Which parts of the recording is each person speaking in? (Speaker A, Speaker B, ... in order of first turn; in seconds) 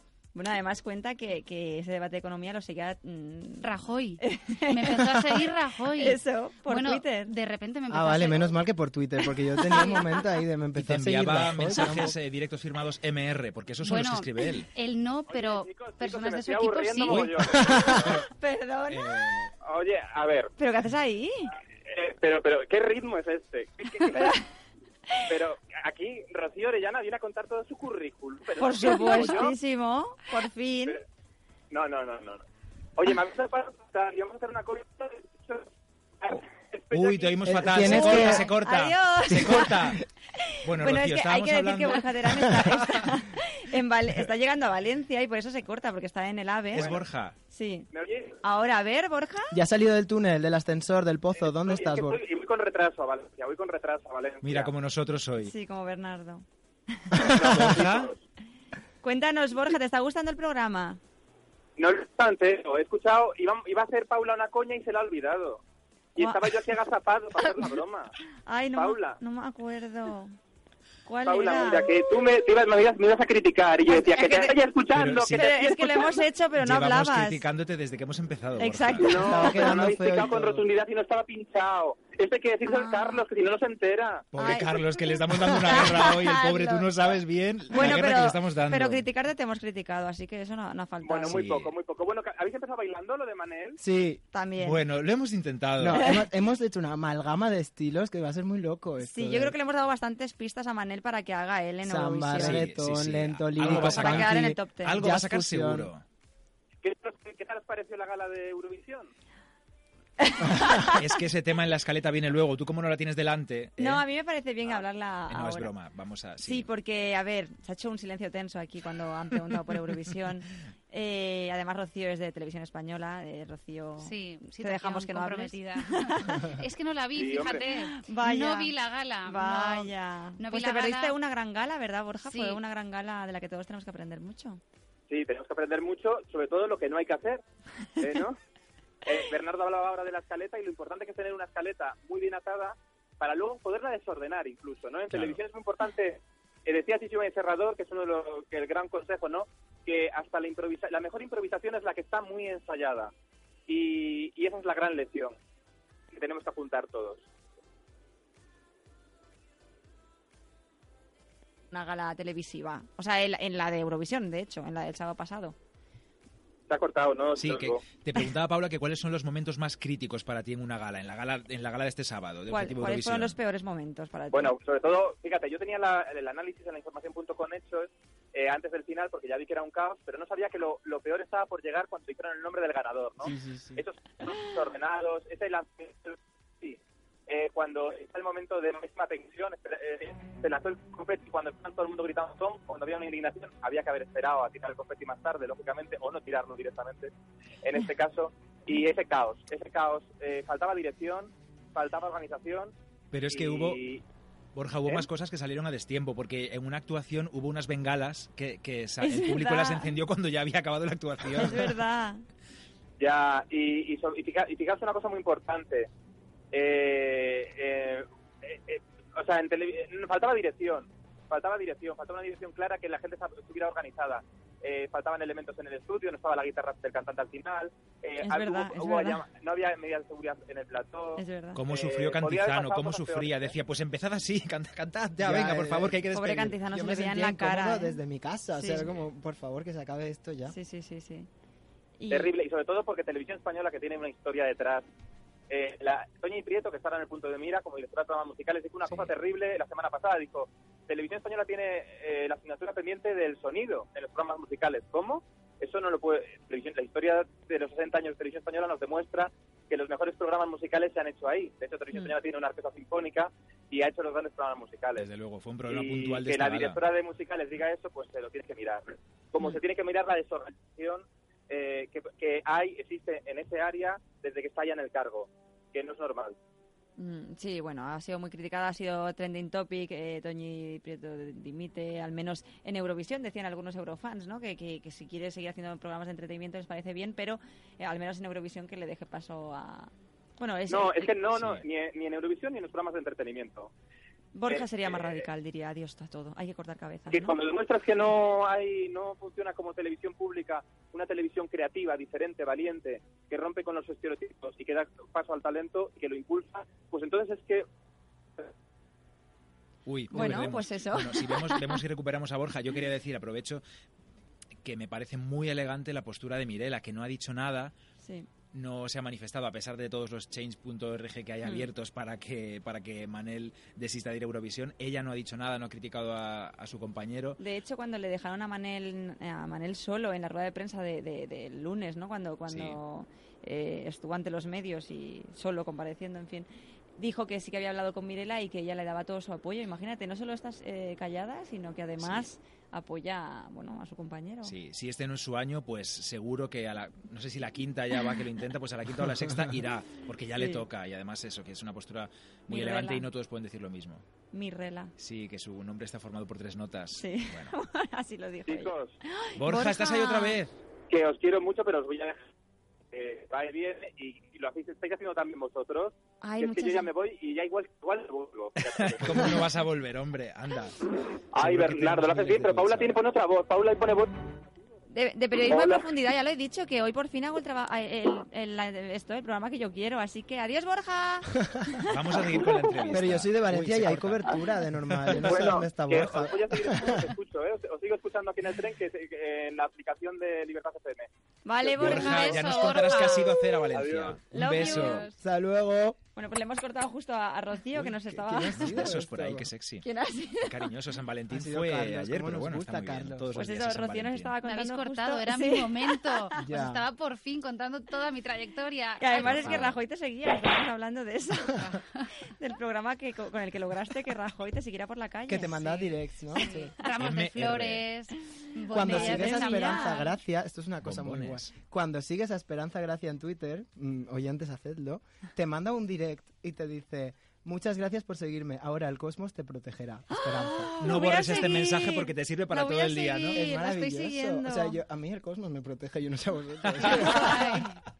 Speaker A: 0.3-3.7, 4.2-7.3, 9.6-10.1, 18.3-19.3, 20.6-21.5, 24.0-24.4, 28.6-31.0, 37.8-39.7, 40.4-47.0, 47.5-47.9, 48.4-49.5, 55.4-57.2, 59.0-61.0, 66.2-66.5, 68.5-70.3, 71.1-72.1, 73.9-74.6, 75.3-77.4, 78.6-79.7, 82.7-83.2, 84.4-86.9, 87.7-91.4, 94.3-94.8, 99.0-102.7, 103.6-105.0, 110.2-111.0, 113.8-115.7, 116.4-126.5, 127.8-128.7, 129.3-134.6, 161.7-165.6, 172.5-174.6, 209.0-210.0, 211.4-212.2, 228.2-229.2, 231.2-231.6, 236.1-238.0, 238.5-238.9, 240.5-241.3, 242.0-242.3, 277.0-291.2, 294.3-297.4, 310.1-311.8, 318.0-318.3, 327.4-344.6, 350.4-350.6, 352.5-353.1, 354.3-354.9, 357.0-360.4, 366.2-366.9, 374.9-381.9, 391.4-392.8, 394.3-395.1, 396.2-398.9, 399.8-400.7, 403.4-406.3, 409.0-411.7, 412.2-415.9, 418.7-420.0, 430.1-434.8
Speaker B: 3.6-8.6, 13.8-17.3, 124.0-131.2, 132.2-132.6, 391.8-393.7, 394.4-395.2, 404.4-409.6, 411.6-412.1, 416.3-420.2, 436.9-437.8
Speaker C: 7.9-12.1, 17.6-18.0, 37.4-38.5, 49.5-52.2, 79.2-80.7, 93.8-94.2, 95.8-99.5, 101.8-105.9, 183.3-183.8, 235.2-236.0, 236.7-240.6, 382.9-387.1, 395.2-396.0, 397.7-399.5, 401.3-403.3, 406.4-406.8, 415.3-416.7, 418.7-430.8, 433.3-437.7
Speaker D: 10.8-14.7, 17.1-18.3, 18.9-19.5, 36.9-40.0, 40.6-43.2, 46.7-47.4, 54.4-55.5, 57.2-58.1, 74.9-75.4, 76.5-79.1, 84.3-89.0, 91.3-91.7, 94.6-96.1, 102.4-106.0, 110.7-114.0, 115.3-116.7, 145.1-145.4, 167.4-173.4, 203.1-203.8, 204.6-211.8, 231.6-236.6, 265.0-266.8, 291.4-291.6, 309.9-313.6, 314.6-317.7, 318.5-327.4, 332.5-332.8, 342.0-342.3, 344.4-354.0, 355.0-357.5, 359.4-360.6, 368.6-373.0, 381.9-385.4, 391.8-395.1, 398.5-399.9, 400.4-404.3, 409.2-409.8, 417.0-417.9, 420.8-421.5, 430.8-433.4, 436.7-437.1
Speaker E: 15.3-17.8, 19.6-20.5, 21.9-24.4, 25.3-29.6, 31.7-32.4, 33.0-35.7, 36.2-37.5, 47.9-48.4, 51.4-54.7, 57.1-58.2, 61.8-65.6, 66.2-68.1, 68.7-69.2, 71.2-76.2, 79.0-84.3, 91.0-93.8, 106.8-109.1, 127.2-127.6, 135.1-137.4, 138.0-138.4, 139.1-153.1, 153.7-155.4, 156.1-157.2, 166.7-167.8, 174.3-197.1, 197.6-202.7, 203.3-204.0, 213.0-215.9, 216.5-233.5, 242.1-244.9, 245.5-265.1, 265.7-276.4, 290.7-293.7, 294.5-295.2, 297.1-307.7, 358.5-359.0, 360.9-362.3, 362.9-369.4, 371.3-374.1, 375.5-375.9, 385.2-391.1, 393.7-394.2